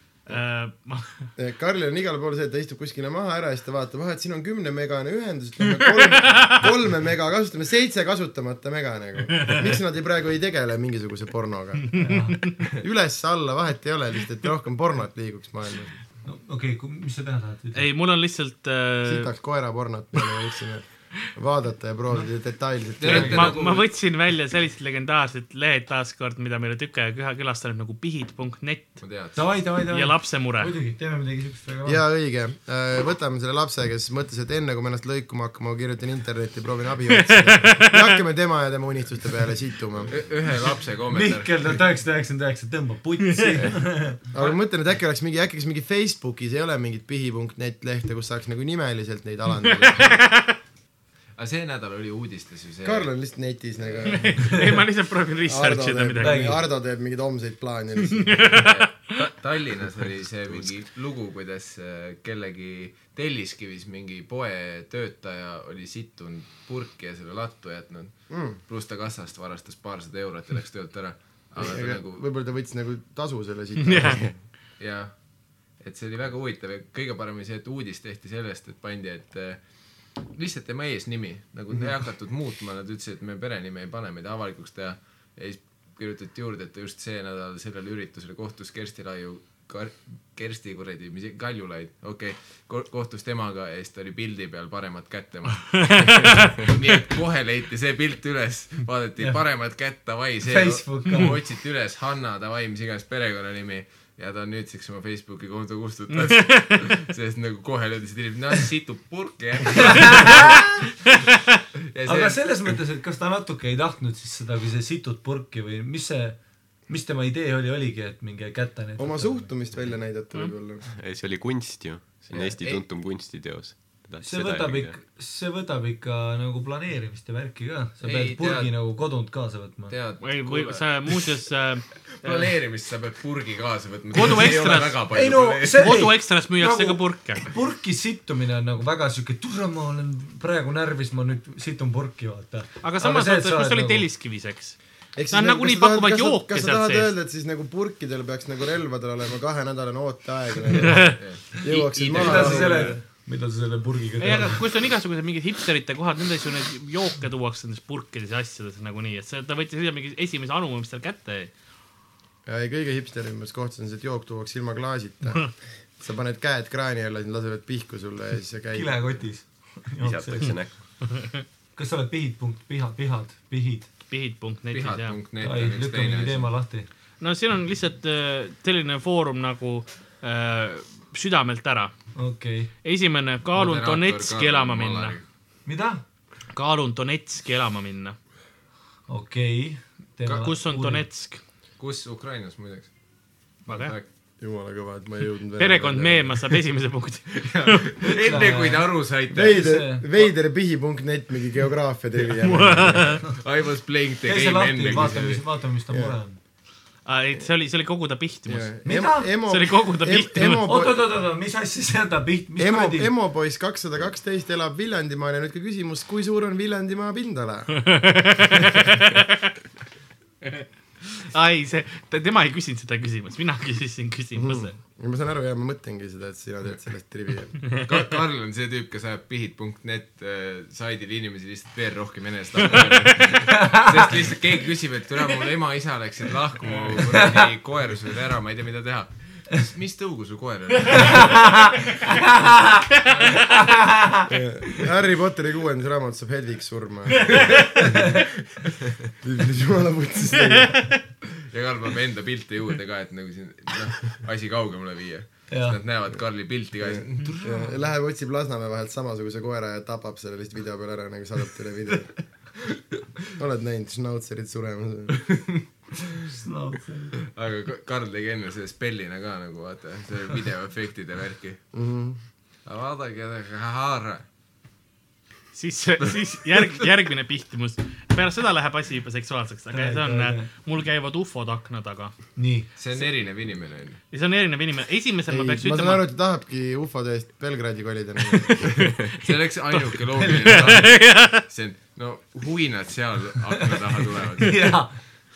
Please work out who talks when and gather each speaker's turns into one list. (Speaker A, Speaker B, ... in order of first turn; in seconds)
Speaker A: 0.3-1.3, 5.9-6.5, 9.3-9.7, 11.9-12.7, 17.7-19.3, 23.1-29.0, 29.9-30.7, 37.1-38.2, 43.2-43.6, 49.7-50.5, 54.0-56.5, 58.1-59.1, 73.8-74.2, 95.7-96.7, 106.1-107.0, 110.0-110.5, 111.0-111.6, 130.2-132.5, 134.1-135.1, 135.7-137.4, 142.8-144.8, 145.3-147.1, 150.8-151.2, 154.2-161.5, 174.1-175.2, 177.2-181.9, 182.8-185.2, 186.5-188.2, 190.3-191.4, 193.7-193.9, 195.6-198.0, 202.4-203.3, 207.0-208.7, 209.4-210.7, 217.7-219.3, 221.3-224.8, 232.7-233.4, 250.4-251.0, 275.5-282.1, 284.1-286.0, 288.8-289.2, 290.4-291.4
Speaker B: 1.4-12.0, 12.7-15.9, 19.0-23.6, 31.8-40.2, 43.6-50.2, 52.8-54.5, 55.5-58.6, 68.3-68.6, 71.5-74.4, 119.0-120.8, 145.2-152.9, 162.4-169.2, 194.4-196.4, 199.3-203.2, 205.9-206.2, 208.5-211.0, 212.6-217.9, 224.3-227.6, 244.3-248.1, 249.2-250.8, 256.8-262.1, 263.3-265.2, 271.7-272.2, 285.3-288.9
Speaker C: 11.9-12.4, 16.2-17.9, 23.1-23.5, 29.3-32.0, 41.1-44.2, 56.2-56.6, 100.4-101.4, 109.7-110.7, 112.0-119.9, 124.2-129.9, 134.2-134.6, 135.1-144.1, 152.1-154.6, 168.7-170.6, 171.7-173.9, 175.4-176.9, 182.2-182.7, 185.7-186.0, 189.1-191.1, 198.0-200.1, 204.2-206.4, 208.8-209.3, 210.4-213.1, 233.4-233.9, 237.1-237.4, 241.1-242.8, 243.4-244.3, 255.5-255.8, 257.3-257.7, 266.2-267.2, 279.7-280.5, 282.4-282.7, 294.4-294.9
Speaker D: 23.0-23.9, 29.0-29.5, 40.1-41.8, 51.4-53.1, 53.8-54.3, 58.5-72.2, 74.8-75.1, 75.8-79.6, 80.2-110.6, 111.9-112.6, 122.3-122.8, 128.0-128.8, 129.9-131.3, 132.1-136.1, 151.2-152.9, 174.7-176.5, 183.5-185.2, 191.8-192.9, 193.7-194.1, 197.4-199.7, 203.3-205.4, 227.8-241.6, 243.1-243.4, 251.4-257.4, 265.2-265.5, 267.3-271.6, 272.6-274.2, 282.8-284.0, 289.1-294.7
Speaker E: 120.8-125.0, 170.0-170.8